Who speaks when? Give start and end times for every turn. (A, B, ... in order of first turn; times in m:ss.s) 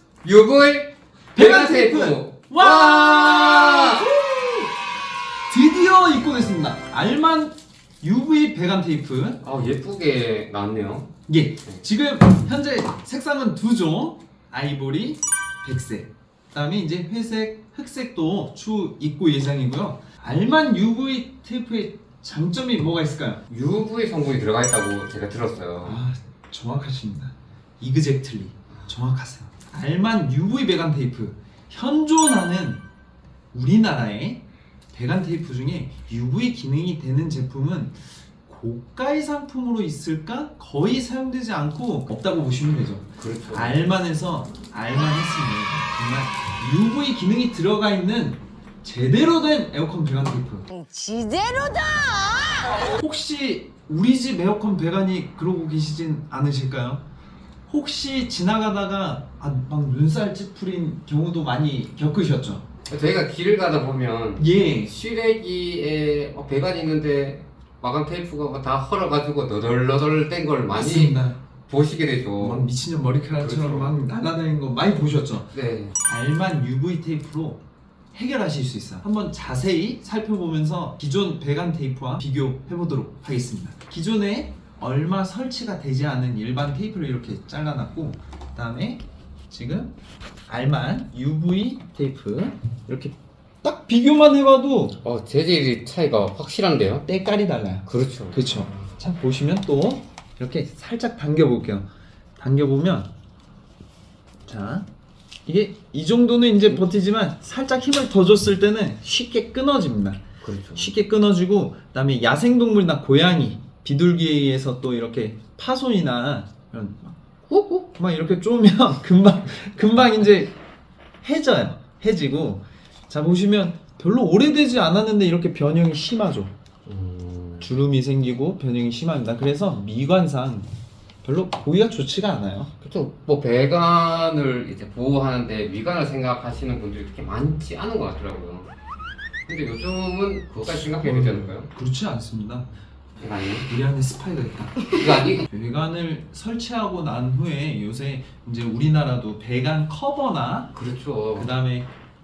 0:00.2-0:04.1 A
0:01.4-0:04.7 B
0:05.5-0:09.4 B
0:09.4-0:11.1 A
0:11.3-0:23.4 B
0:23.5-0:26.0 A
0:25.8-0:32.8 B
0:33.5-0:50.7 B
0:43.2-0:43.8 A
0:50.7-0:52.8 C
0:52.8-0:57.0 B
0:57.7-1:02.6 B
1:02.9-1:12.7 A
1:04.4-1:04.9 B
1:10.7-1:11.4 B
1:12.4-1:15.5 B
1:13.4-1:13.9 A
1:15.5-1:16.0 A
1:16.1-1:17.6 B
1:18.1-1:29.9 B
1:30.5-1:35.0 B
1:35.0-1:37.0 A
1:37.1-1:41.9 B
1:37.9-1:38.9 A
1:42.4-1:43.1 B
1:44.5-1:44.9 B
1:45.5-1:50.2 B
1:50.4-1:51.0 A
1:50.8-1:57.2 B
1:57.5-1:57.8 A
1:57.7-2:00.6 B
2:01.2-2:06.5 B
2:06.9-2:07.7 A
2:07.6-2:10.7 B
2:11.2-2:12.7 B
2:12.8-2:18.7 A
2:19.5-2:21.7 A
2:20.7-2:22.7 B
2:23.2-2:23.7 A
2:23.7-2:30.7 B
2:25.0-2:25.5 A
2:30.7-2:31.5 A
2:31.4-2:31.9 B